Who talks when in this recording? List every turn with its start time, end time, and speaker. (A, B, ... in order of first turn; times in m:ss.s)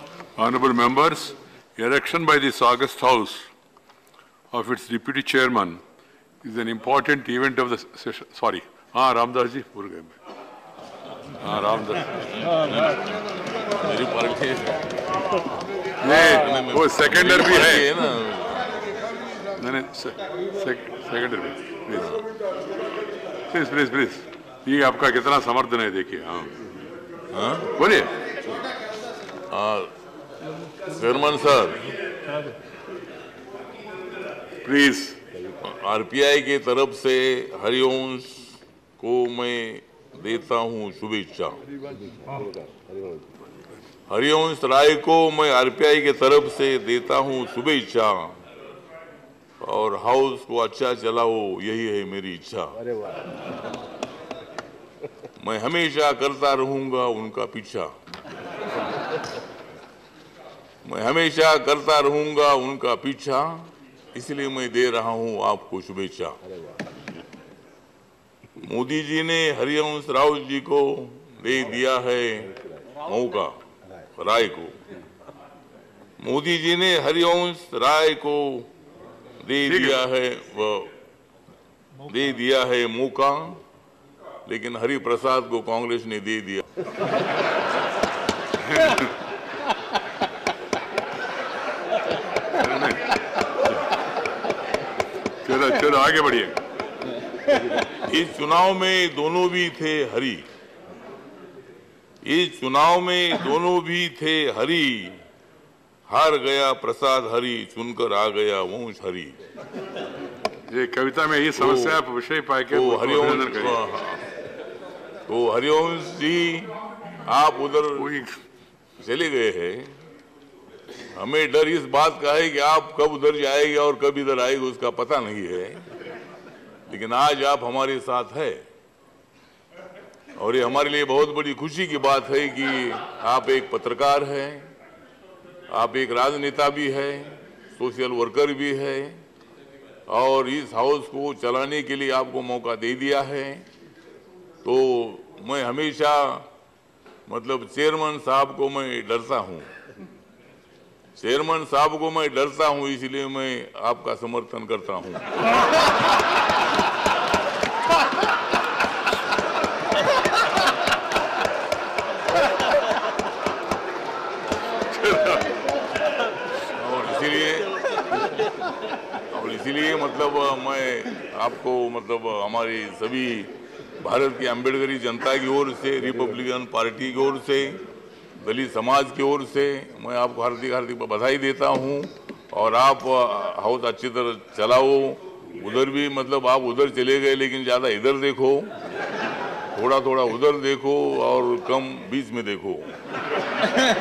0:00.4-0:03.4 A
0:04.5-0:05.8 A
0:06.4-0:10.2 A
0:11.4-0:12.5 A
0:13.8-0:14.9 B
0:16.0-0:18.0 A
0:16.0-0:18.7 B
0:19.6-0:22.2 A
0:23.5-0:26.6 A
0:27.3-0:27.7 B
0:27.8-0:28.1 A
0:29.5-0:29.9 B
0:30.9-0:31.9 B
0:34.6-0:35.2 A
0:35.6-0:41.6 B
0:44.1-0:48.4 B
0:49.6-0:52.8 B
0:55.4-0:57.9 B
1:00.8-1:06.4 B
1:08.6-1:13.6 B
1:14.2-1:14.8 B
1:16.2-1:18.7 B
1:19.4-1:20.9 B
1:19.7-1:20.0 A
1:22.0-1:23.6 B
1:24.4-1:26.7 B
1:28.6-1:29.1 A
1:32.6-1:33.0 A
1:35.4-1:36.6 A
1:37.8-1:40.5 B
1:42.2-1:45.2 B
1:46.1-1:49.4 B
1:50.7-1:53.8 A
1:51.6-1:52.0 B
1:52.7-1:54.3 B
1:55.3-1:58.1 B
1:58.0-1:58.3 A
1:59.0-1:59.9 B
2:01.1-2:05.8 B
2:06.9-2:08.6 B
2:10.4-2:14.7 B
2:15.7-2:19.2 B
2:20.1-2:23.7 B
2:24.6-2:26.5 B
2:27.3-2:29.7 B
2:31.2-2:35.4 B
2:44.9-2:45.5 A
2:46.7-2:47.8 B
2:49.3-2:57.8 B
2:58.4-3:08.7 B
3:09.7-3:12.9 B